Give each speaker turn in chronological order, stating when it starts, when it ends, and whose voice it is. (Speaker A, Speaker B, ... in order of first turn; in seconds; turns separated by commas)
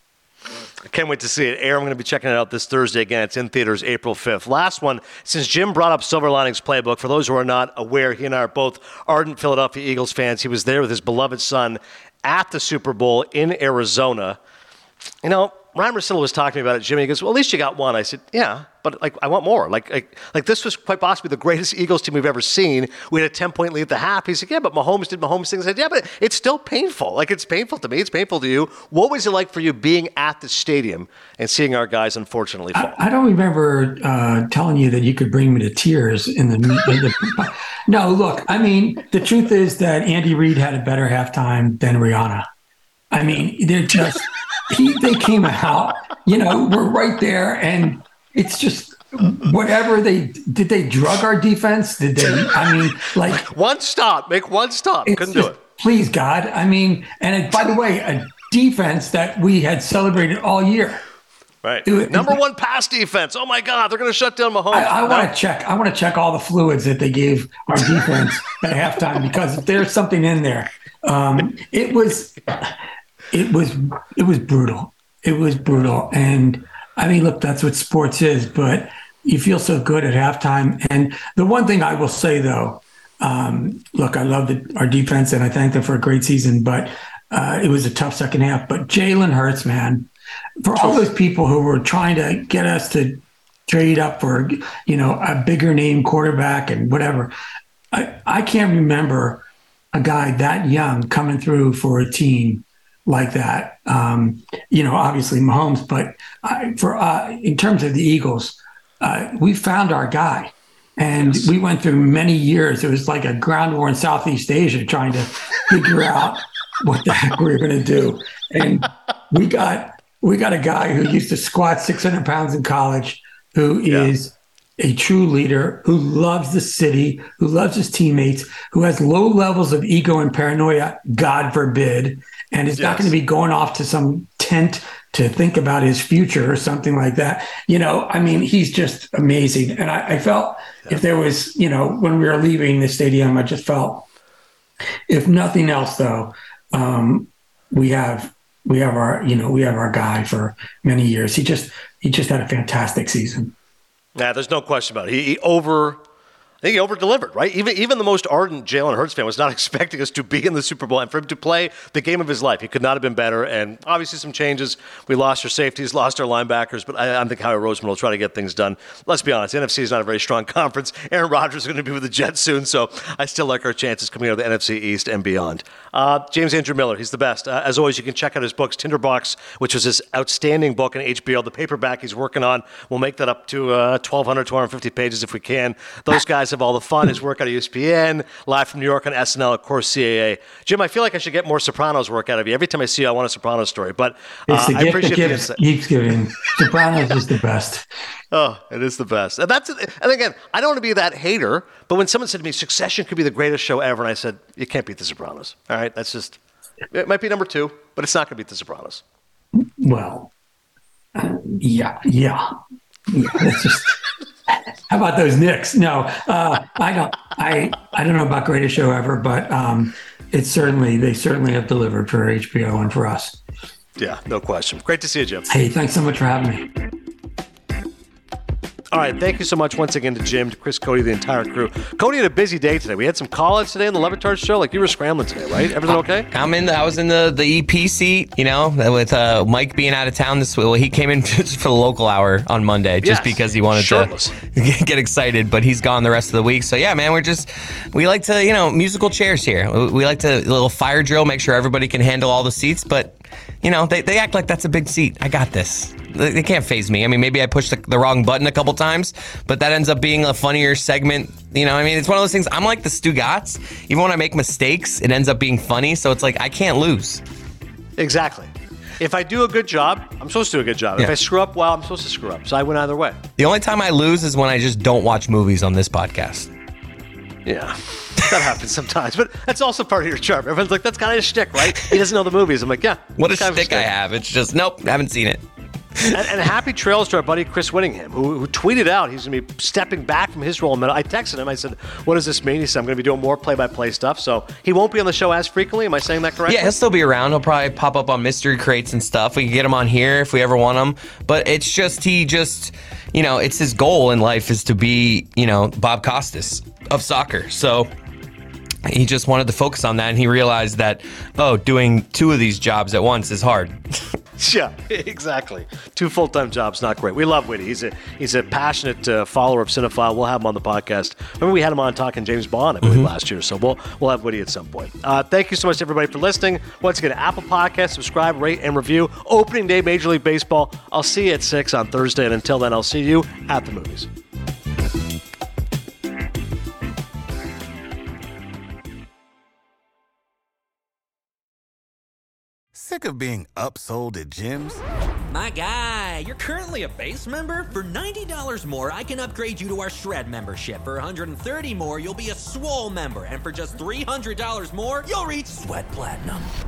Speaker A: 0.9-14.4, Speaker A: 15.2-33.0, Speaker B: 32.8-42.5, Speaker B: 43.1-53.5, Speaker A: 53.3-55.6, Speaker B: 55.1-61.0, Speaker A: 61.6-65.3, Speaker B: 61.9-62.4, Speaker B: 64.7-72.7, Speaker B: 73.3-90.1, Speaker B: 90.6-97.3, Speaker B: 97.9-144.1, Speaker A: 111.2-111.5, Speaker A: 123.9-124.1, Speaker A: 132.8-133.1, Speaker B: 145.1-153.5, Speaker A: 154.2-156.0, Speaker A: 156.6-195.6, Speaker B: 194.5-197.9, Speaker A: 198.3-206.4, Speaker A: 206.9-209.0, Speaker B: 209.6-210.3, Speaker B: 211.2-212.5, Speaker B: 213.1-214.0, Speaker B: 214.5-223.4, Speaker A: 224.0-225.5, Speaker B: 225.5-226.7, Speaker A: 228.9-236.3, Speaker C: 236.3-267.2, Speaker A: 243.0-244.3, Speaker A: 268.0-273.2, Speaker C: 273.4-276.5, Speaker A: 277.5-283.9, Speaker C: 283.2-285.4, Speaker A: 286.1-296.8, Speaker C: 296.5-307.9, Speaker C: 308.9-313.8, Speaker A: 314.4-334.1, Speaker C: 322.8-323.1, Speaker D: 342.7-344.8, Speaker E: 345.3-356.5